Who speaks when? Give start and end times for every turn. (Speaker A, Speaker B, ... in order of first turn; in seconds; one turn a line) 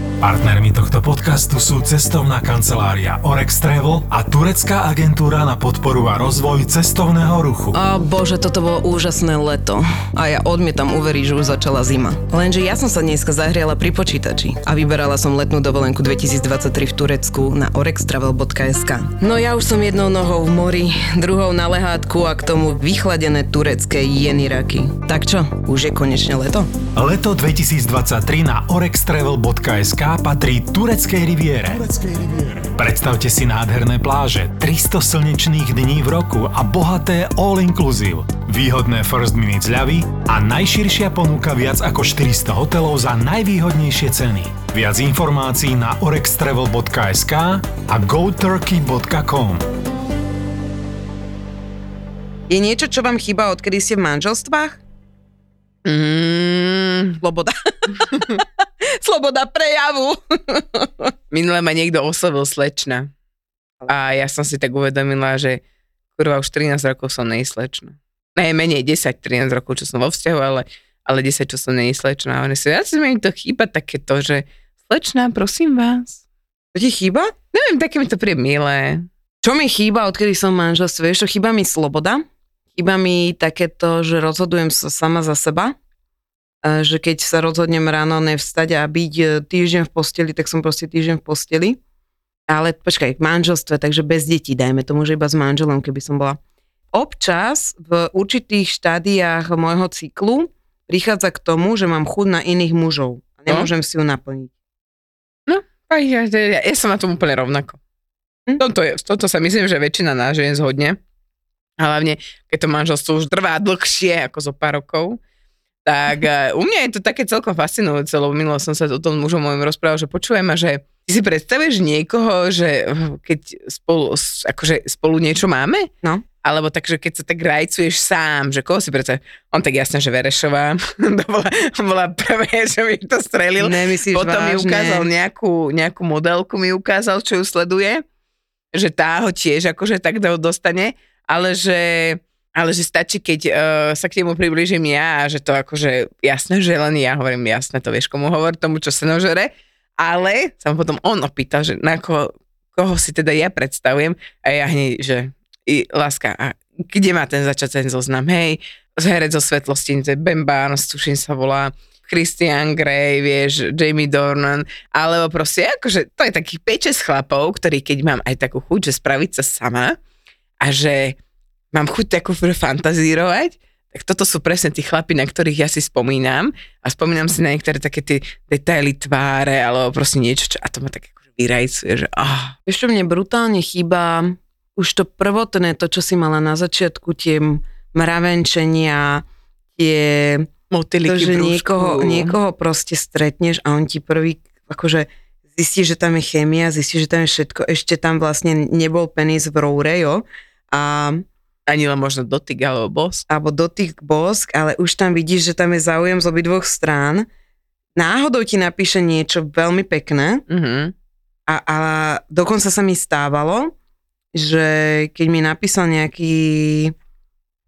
Speaker A: 0.2-7.8
Speaker B: 7.7-26.7
Speaker A: 26.9-49.6
Speaker B: 52.5-54.8
Speaker C: 55.8-57.2
Speaker B: 57.2-61.1
Speaker C: 61.3-63.1
Speaker C: 63.9-65.6
Speaker C: 66.1-76.2
Speaker B: 76.7-77.3
Speaker C: 77.5-79.0
Speaker B: 79.4-82.2
Speaker B: 82.7-85.8
Speaker B: 86.6-91.8
Speaker B: 92.5-96.4
Speaker B: 96.9-104.5
Speaker C: 105.5-107.8
Speaker C: 108.6-111.0
Speaker C: 111.8-115.2
Speaker C: 115.8-125.9
Speaker C: 126.4-138.0
Speaker B: 133.6-135.1
Speaker C: 138.7-170.0
Speaker C: 170.6-171.2
Speaker C: 171.7-182.6
Speaker B: 182.7-189.2
Speaker B: 189.8-190.5
Speaker C: 190.7-192.4
Speaker B: 191.1-201.2
Speaker C: 201.7-203.3
Speaker B: 203.3-207.3
Speaker B: 207.9-210.4
Speaker C: 210.5-210.9
Speaker B: 211.5-213.7
Speaker B: 214.3-216.9